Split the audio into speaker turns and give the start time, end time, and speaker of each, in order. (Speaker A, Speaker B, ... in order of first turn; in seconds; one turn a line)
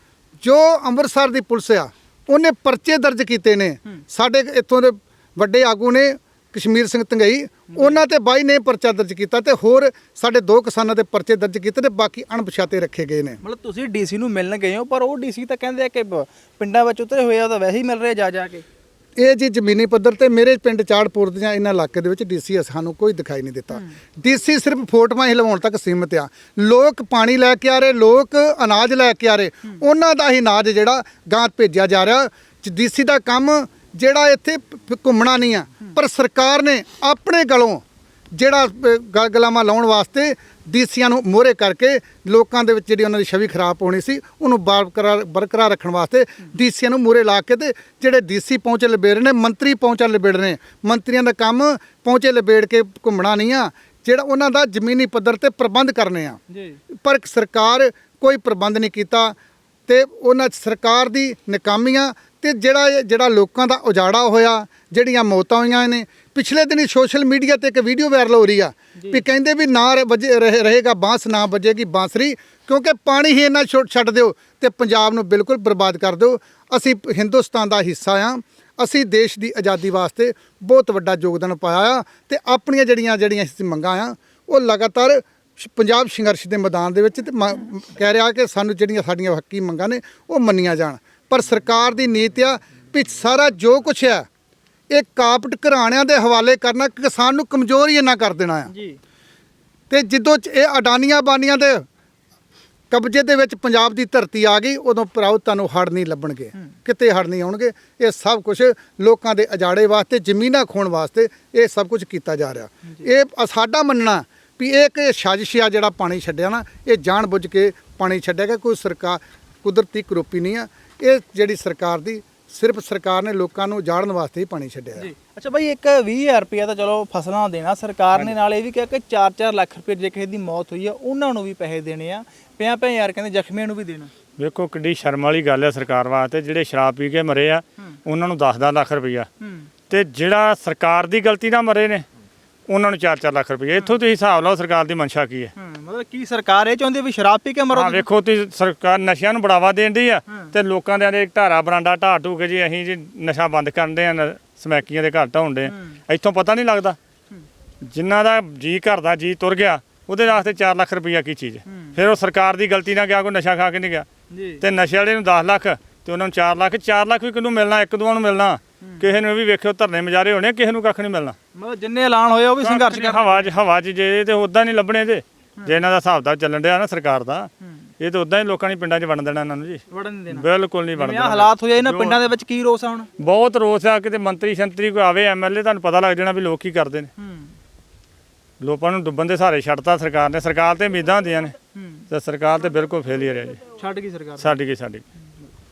Speaker A: 0.4-13.4
Speaker B: 7.7-8.0
Speaker B: 13.4-18.6
Speaker A: 19.2-56.4
Speaker B: 56.5-56.8
Speaker A: 57.0-59.4
Speaker A: 59.9-94.2
Speaker B: 69.0-69.2
Speaker A: 94.9-98.7
Speaker B: 98.7-99.0
Speaker A: 99.9-101.8
Speaker A: 102.9-125.1
Speaker B: 125.0-134.1
Speaker C: 134.4-139.3
Speaker B: 139.4-139.7
Speaker C: 139.9-142.0
Speaker C: 142.7-145.5
Speaker B: 145.6-148.1
Speaker C: 147.7-157.0
Speaker B: 155.7-156.0
Speaker C: 157.9-164.1
Speaker B: 161.7-161.9
Speaker B: 164.3-164.6
Speaker C: 164.6-171.3
Speaker B: 171.6-173.5
Speaker C: 172.6-182.2
Speaker B: 179.9-183.1
Speaker C: 183.2-187.1
Speaker B: 187.2-187.5
Speaker C: 188.6-191.5
Speaker B: 191.8-192.0
Speaker C: 192.1-193.6
Speaker B: 193.7-194.5
Speaker C: 194.4-195.0